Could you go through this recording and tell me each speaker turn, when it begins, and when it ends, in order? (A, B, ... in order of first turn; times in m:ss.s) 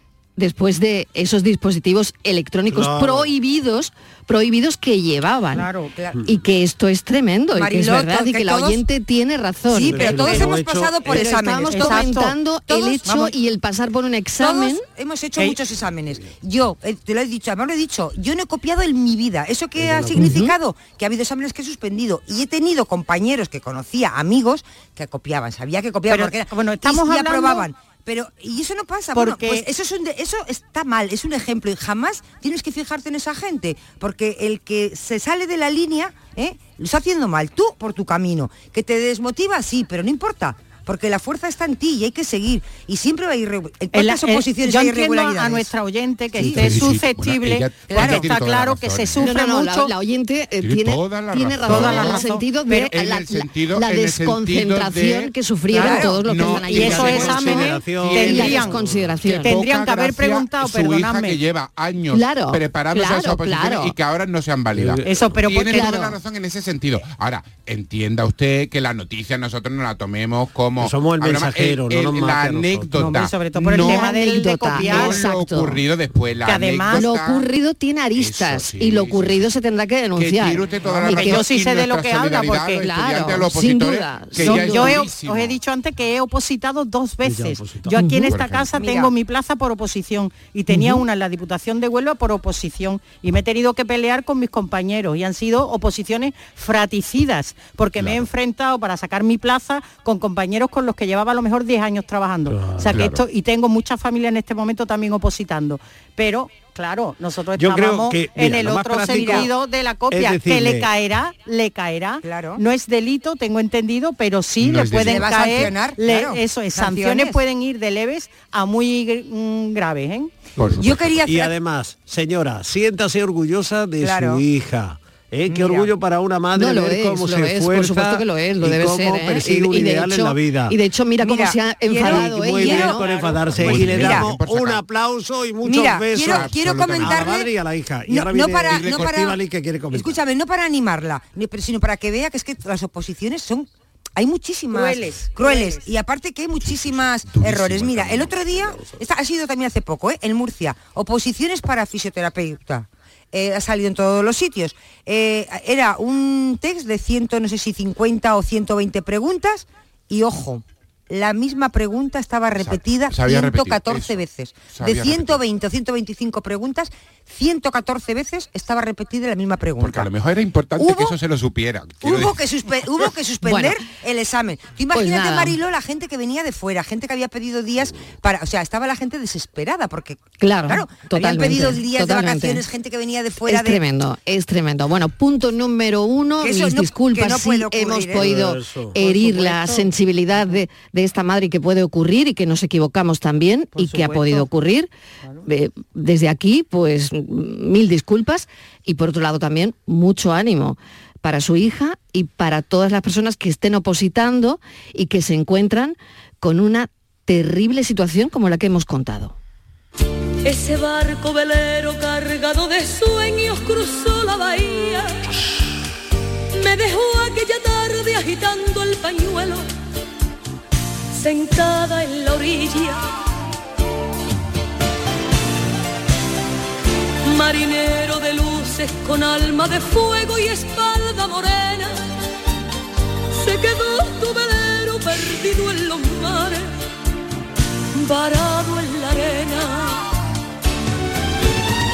0:00.4-0:05.7 A
0:02.7-0:03.3 B
0:05.5-0:05.9 C
0:05.9-0:06.2 D
0:06.2-0:10.4 A
0:07.5-0:08.8 D
0:09.7-0:12.1 D
0:09.9-0:11.3 B
0:11.1-0:14.8 A
0:11.7-0:12.3 C
0:12.7-0:13.1 D
0:13.0-0:13.3 C
0:14.4-0:45.7 D
0:19.8-0:20.4 B
0:20.2-0:20.5 A
0:26.1-0:27.7 C
0:29.1-0:29.7 C
0:43.9-0:49.9 C
0:46.4-0:46.7 D
0:46.4-0:49.3 E
0:47.9-0:48.3 D
0:49.2-0:57.6 A
0:50.6-0:52.3 E
0:51.6-0:52.9 C
0:52.9-0:55.3 E
0:55.7-0:56.0 C
0:55.7-0:56.2 D
0:56.2-1:14.1 E
0:56.6-0:58.8 C
0:56.7-0:59.1 B
0:58.2-0:59.6 A
0:59.4-1:01.4 C
1:02.1-1:03.9 A
1:04.7-1:05.4 B
1:05.0-1:06.0 C
1:05.7-1:06.2 A
1:10.8-1:13.1 B
1:12.9-1:15.2 C
1:13.7-1:15.8 A
1:14.7-1:17.5 E
1:16.4-1:17.0 C
1:16.9-1:21.4 A
1:18.2-1:19.5 E
1:20.2-1:25.6 E
1:21.0-1:22.8 C
1:22.8-1:25.0 A
1:24.4-2:00.3 C
1:27.2-1:28.0 B
1:28.0-1:28.3 A
1:28.2-1:28.8 E
1:28.7-1:29.1 D
1:42.5-1:42.9 B
1:42.9-1:43.2 E
1:47.6-1:49.5 B
1:49.1-1:49.5 D
1:50.1-1:50.9 B
1:52.2-1:52.6 D
1:54.6-1:55.6 E
1:55.0-1:57.4 D
2:00.6-2:01.0 E
2:00.6-2:10.8 B
2:00.8-2:01.5 D
2:04.0-2:04.4 D
2:05.5-2:05.9 D
2:06.5-2:13.0 A
2:11.2-2:14.3 D
2:12.0-2:20.2 B
2:13.0-2:13.4 C
2:13.5-2:14.8 E
2:15.6-2:17.5 D
2:16.1-2:17.3 E
2:18.1-2:19.4 D
2:18.7-2:19.1 E
2:19.9-2:50.1 D
2:24.7-2:25.9 C
2:26.7-2:28.5 E
2:28.5-2:29.0 B
2:42.6-2:45.4 E
2:49.8-2:52.4 E
2:50.8-2:51.2 D
2:52.0-3:03.8 D
2:53.4-2:53.8 A
2:54.9-2:55.6 A
3:00.4-3:02.6 A
3:03.4-3:14.9 A
3:06.4-3:08.3 D
3:08.1-3:09.0 B
3:09.0-3:10.6 C
3:13.8-3:14.5 C
3:15.4-3:29.4 A
3:30.4-3:35.3 F
3:36.5-3:39.7 F
3:41.1-3:43.1 F
3:47.2-3:52.0 F
3:53.3-3:56.7 F
3:57.9-4:00.1 F